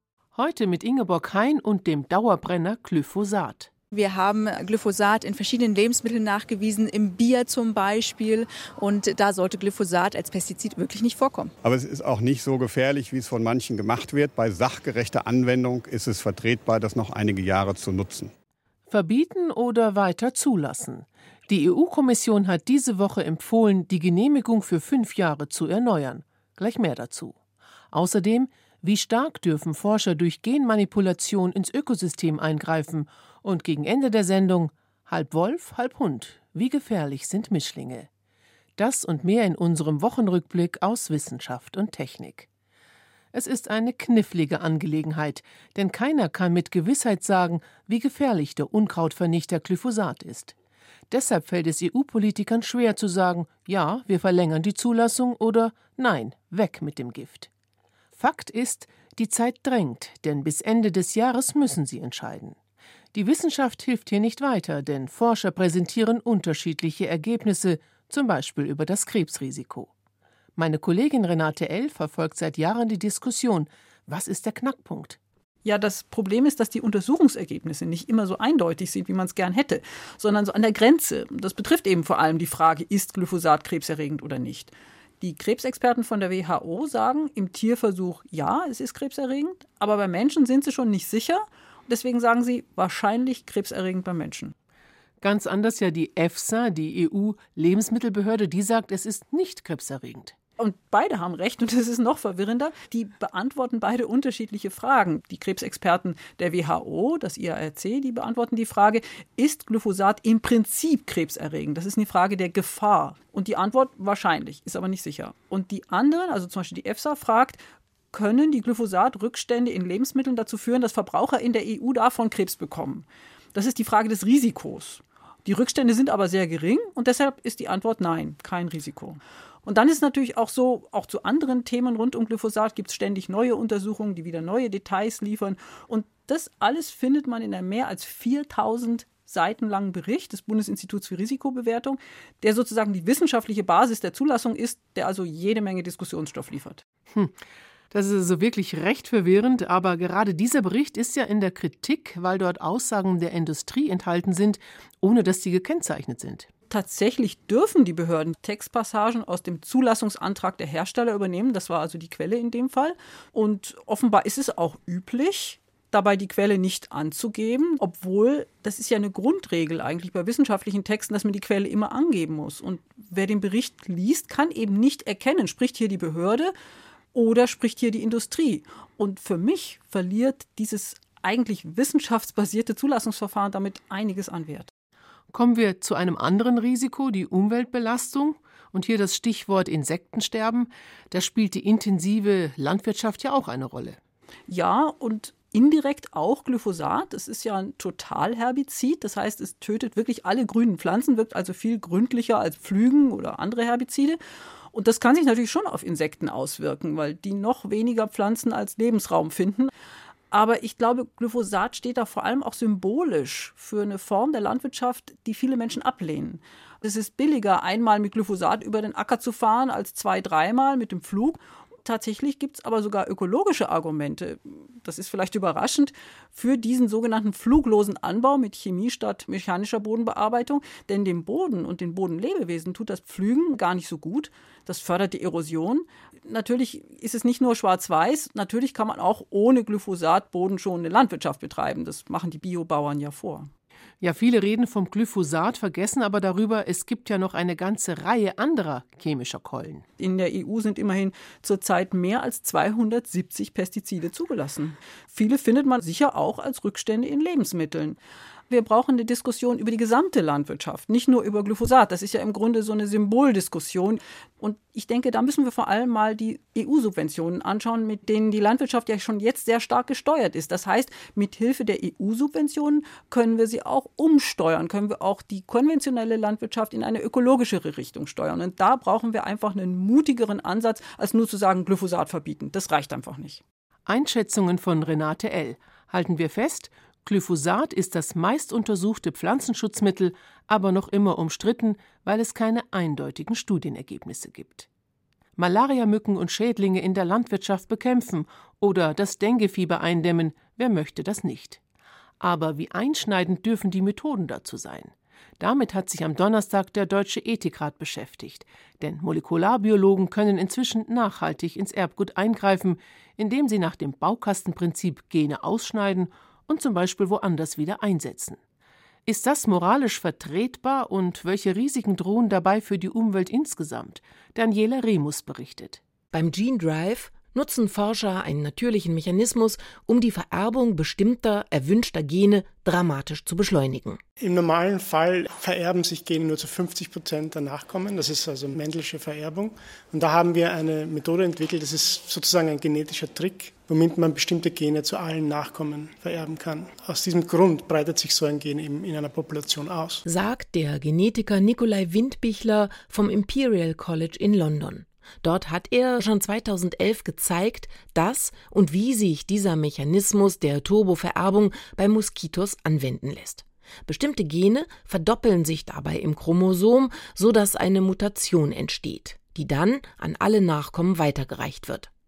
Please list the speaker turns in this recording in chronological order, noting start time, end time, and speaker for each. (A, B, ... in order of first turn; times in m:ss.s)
0:00.3-0:03.7 A
0:03.9-0:11.5 B
0:11.6-0:18.3 C
0:18.9-0:27.4 A
0:27.9-0:38.1 A
0:38.8-0:42.5 A
0:43.3-0:50.5 A
0:51.1-0:57.5 A
0:58.1-1:02.6 A
1:03.1-1:09.9 A
1:10.6-1:15.2 A
1:15.6-1:34.5 D
1:35.2-1:40.4 A
1:40.6-1:57.6 D
1:58.1-2:26.8 D
2:27.1-2:27.4 A
2:27.9-2:36.5 A
2:36.7-2:56.5 D
2:57.1-3:04.7 D
3:05.3-3:14.0 A
3:14.5-3:24.2 D
3:24.7-3:29.7 D
3:30.3-4:03.5 D
4:04.0-4:09.8 A
4:10.0-4:18.0 D
4:18.5-4:43.4 D
4:43.9-4:54.7 A
4:55.4-5:01.6 A
5:02.2-5:18.4 A
5:19.0-5:25.8 A
5:26.1-5:34.0 E
5:34.2-5:50.0 F
5:50.0-6:11.9 E